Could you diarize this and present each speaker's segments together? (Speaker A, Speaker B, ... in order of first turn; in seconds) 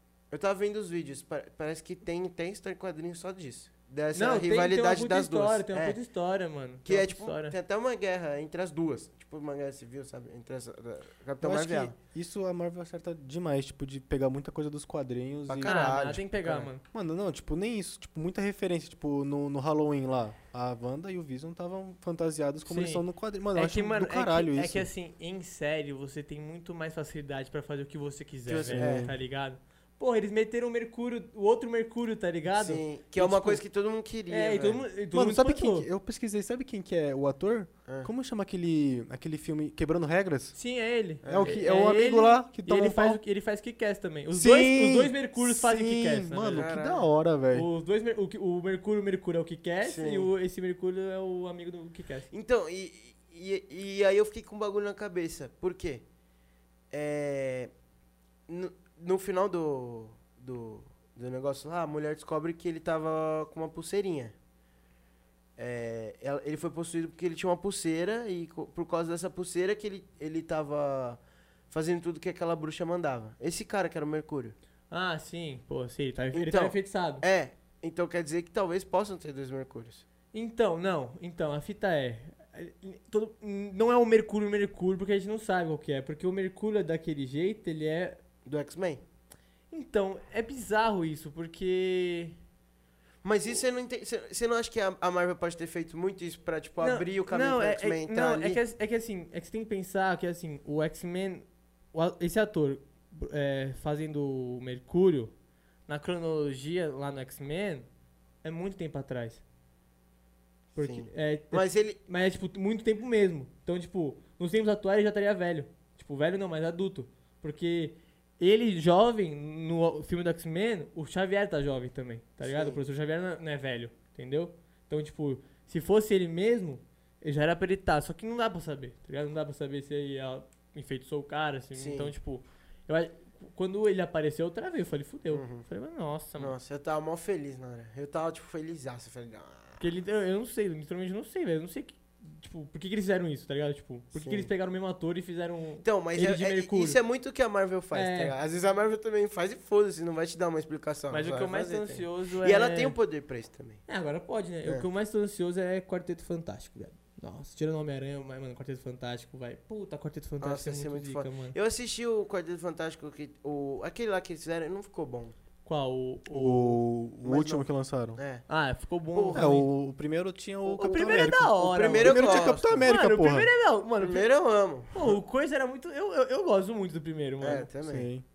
Speaker A: 0.3-6.0, 6.8-11.9, 15.5-16.7, 28.5-29.1, 32.5-34.9, 37.9-38.1, 41.2-41.5, 46.5-47.1, 49.8-50.3, 52.3-56.0, 56.9-57.7, 58.5-64.3, 65.6-71.2, 71.7-74.5, 76.3-80.0, 88.4-89.0, 93.2-98.6, 110.7-112.0, 122.4-122.8, 131.7-132.1, 135.3-135.7, 136.4-139.8, 144.1-144.5, 145.8-153.8, 160.4-165.3, 167.2-168.4, 169.1-169.5, 170.7-172.9, 174.0-175.1, 177.4-178.1
Speaker B: 4.1-7.6, 15.6-16.8, 22.6-33.6, 34.3-35.9, 40.5-46.7, 47.5-52.3, 74.9-77.2, 80.3-88.2, 89.7-92.4, 96.8-105.3, 105.9-107.9, 108.4-109.4, 110.8-136.6, 139.8-147.0, 147.9-148.3, 151.1-152.9, 153.9-161.6, 165.7-166.8, 168.5-169.7, 170.7-174.3, 174.9-177.7
Speaker C: 11.4-16.0, 16.9-24.9, 28.6-29.1, 35.1-40.6, 41.2-43.2, 44.3-47.7, 166.3-168.2, 169.3-173.5, 177.8-178.2